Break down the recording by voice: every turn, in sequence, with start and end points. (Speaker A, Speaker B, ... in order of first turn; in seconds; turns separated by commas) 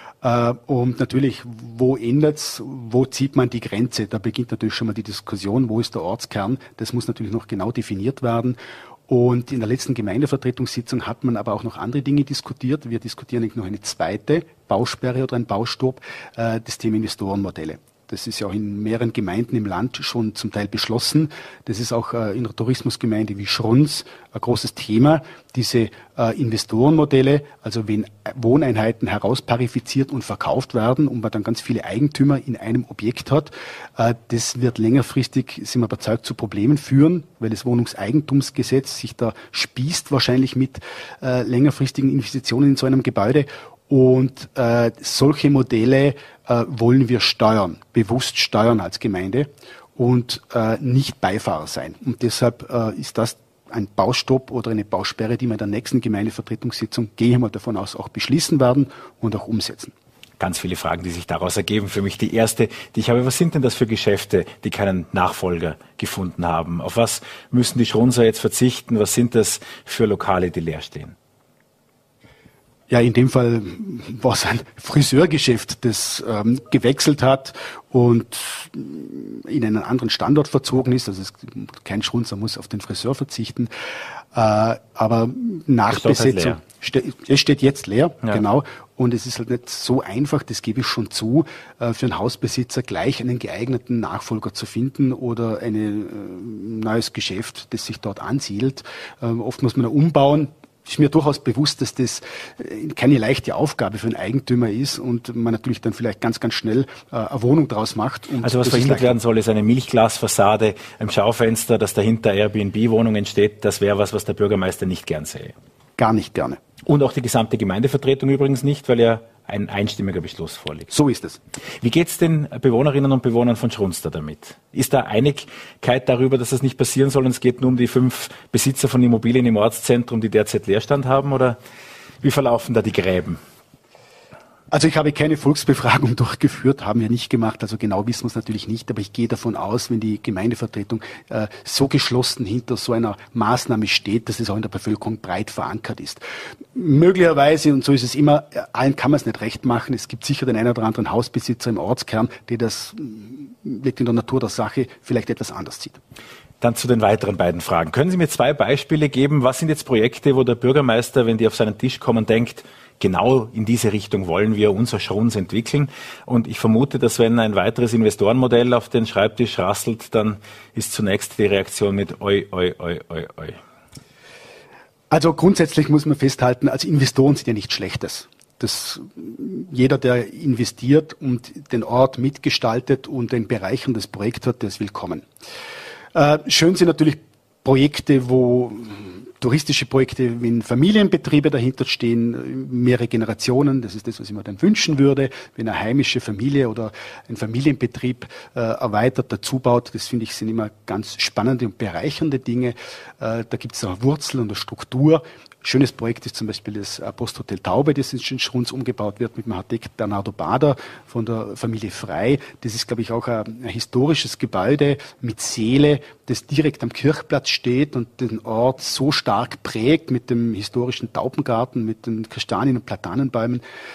Speaker A: 0.2-59.9, Speaker B: 60.4-71.2, Speaker A: 72.9-83.7, Speaker A: 84.3-109.2, Speaker B: 85.9-86.6, Speaker B: 108.4-115.5, Speaker A: 116.0-116.6, Speaker B: 116.8-120.9, Speaker A: 120.9-121.4, Speaker B: 121.8-131.6, Speaker B: 132.2-133.4, Speaker A: 134.7-146.2, Speaker A: 146.7-156.0, Speaker B: 156.6-173.6, Speaker A: 175.1-185.3, Speaker A: 186.1-223.6